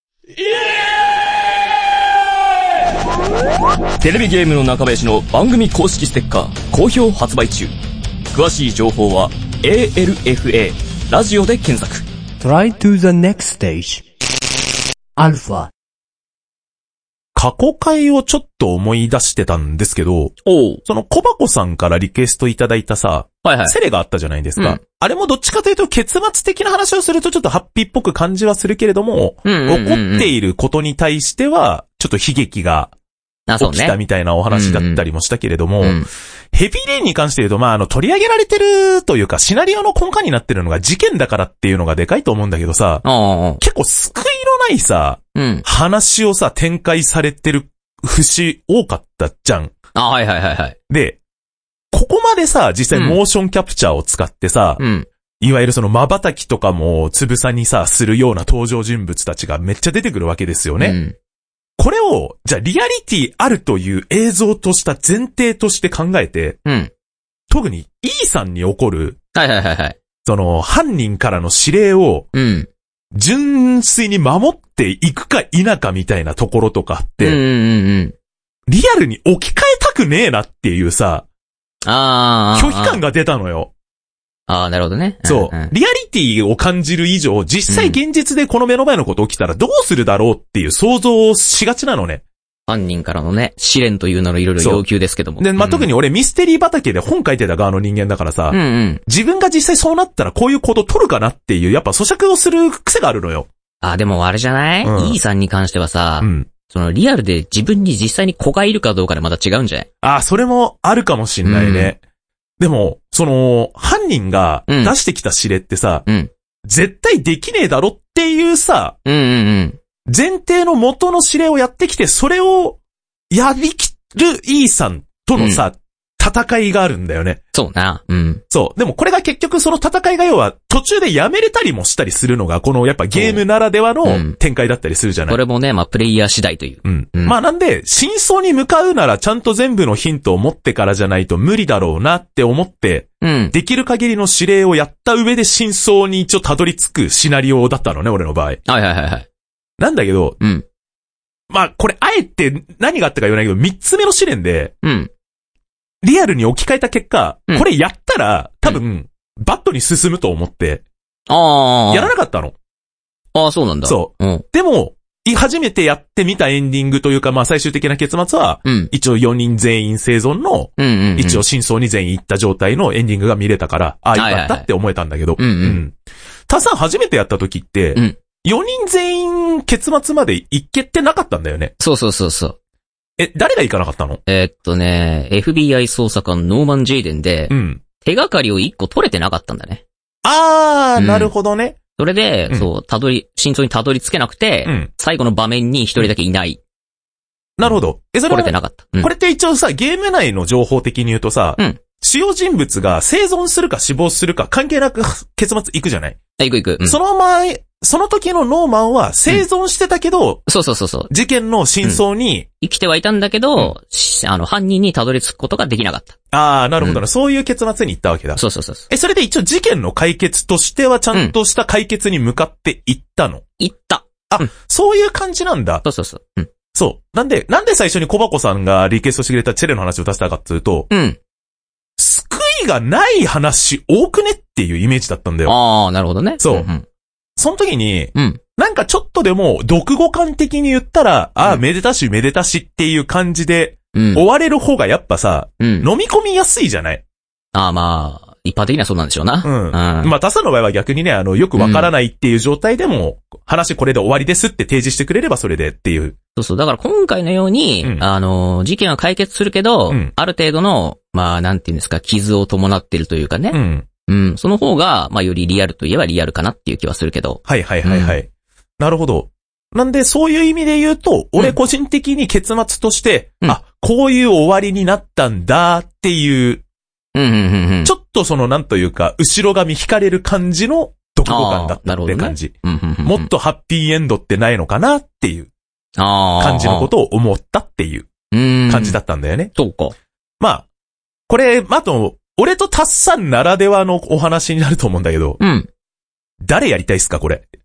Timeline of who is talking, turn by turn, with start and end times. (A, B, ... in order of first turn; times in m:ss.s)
0:04.0-0:07.7 A
0:08.3-0:12.0 A
0:12.4-0:14.0 B
0:15.2-0:15.7 B
0:17.3-0:32.9 C
0:20.4-0:20.8 D
0:23.4-0:23.8 D
0:29.4-0:30.3 D
0:33.5-0:34.0 D
0:33.6-0:36.0 C
0:34.5-0:35.0 D
0:35.8-0:36.1 D
0:36.5-0:43.0 C
0:43.0-0:43.6 D
0:43.6-0:49.7 C
0:45.3-0:45.6 D
0:49.9-0:50.8 D
0:50.9-0:51.2 C
0:51.9-0:54.8 C
0:54.8-0:55.1 D
0:55.4-1:01.0 C
1:00.8-1:01.1 D
1:01.8-1:06.6 C
1:06.6-1:06.9 D
1:07.5-1:09.2 C
1:09.3-1:10.0 D
1:10.2-1:12.3 C
1:12.3-1:12.7 D
1:13.1-1:17.4 C
1:17.2-1:18.1 D
1:18.7-1:21.2 C
1:21.8-1:23.0 D
1:22.5-1:23.7 C
1:24.5-1:25.7 D
1:25.2-1:32.2 C
1:27.7-1:28.0 D
1:32.7-1:35.9 D
1:35.4-1:43.5 C
1:38.5-1:39.0 D
1:43.8-1:49.9 D
1:44.8-1:45.2 C
1:46.2-1:46.5 C
1:50.0-1:52.0 C
1:51.4-1:51.9 D
1:52.6-1:56.1 C
1:54.7-1:54.9 D
1:56.6-1:59.0 C
1:59.0-1:59.8 D
2:00.1-2:02.8 C
2:03.3-2:07.4 C
2:05.4-2:05.6 D
2:07.5-2:08.4 D
2:08.5-2:15.4 C
2:13.1-2:13.4 D
2:14.0-2:14.4 D
2:15.3-2:17.4 D
2:16.8-2:28.6 C
2:23.2-2:23.5 D
2:28.7-2:29.3 D
2:29.8-2:30.4 C
2:31.5-2:34.7 C
2:34.8-2:35.1 D
2:36.0-2:40.8 C
2:41.3-2:42.1 D
2:41.9-2:42.5 C
2:43.3-2:44.4 D
2:43.8-2:55.9 C
2:48.6-2:48.9 D
2:50.8-2:51.4 D
2:54.1-2:54.6 D
2:55.4-2:55.8 D
2:56.5-3:01.7 C
3:01.8-3:02.6 D
3:03.2-3:04.2 C
3:04.3-3:09.8 D
3:07.5-3:07.8 C
3:10.2-3:11.8 C
3:11.0-3:11.3 D
3:12.0-3:16.6 D
3:17.6-3:26.2 C
3:18.3-3:19.1 D
3:26.4-3:27.0 D
3:26.8-3:30.5 C
3:30.5-3:31.1 D
3:31.1-3:32.5 C
3:32.6-3:36.2 D
3:36.3-3:43.4 C
3:38.4-3:38.9 D
3:43.6-3:44.5 D
3:44.3-3:45.8 C
3:45.8-3:46.5 D
3:46.7-3:50.9 C
3:50.9-3:51.2 D
3:52.0-3:55.5 C
3:55.4-3:56.8 D
3:56.4-3:56.7 C
3:57.4-4:07.0 C
3:58.1-3:58.4 D
4:03.9-4:04.2 D
4:05.6-4:05.9 D
4:07.5-4:10.1 D
4:09.4-4:16.2 C
4:11.6-4:11.9 D
4:16.4-4:28.2 D
4:23.5-4:23.9 C
4:27.4-4:28.3 C
4:28.8-4:36.6 C
4:37.1-4:37.9 D
4:37.8-4:45.5 C
4:41.2-4:43.3 D
4:46.0-4:46.9 D
4:46.4-4:48.1 C
4:48.3-4:49.0 D
4:48.7-4:49.5 C
4:49.5-4:49.9 D
4:50.4-4:50.6 C
4:51.3-4:55.4 C
4:55.4-4:55.7 D
4:56.4-4:57.4 C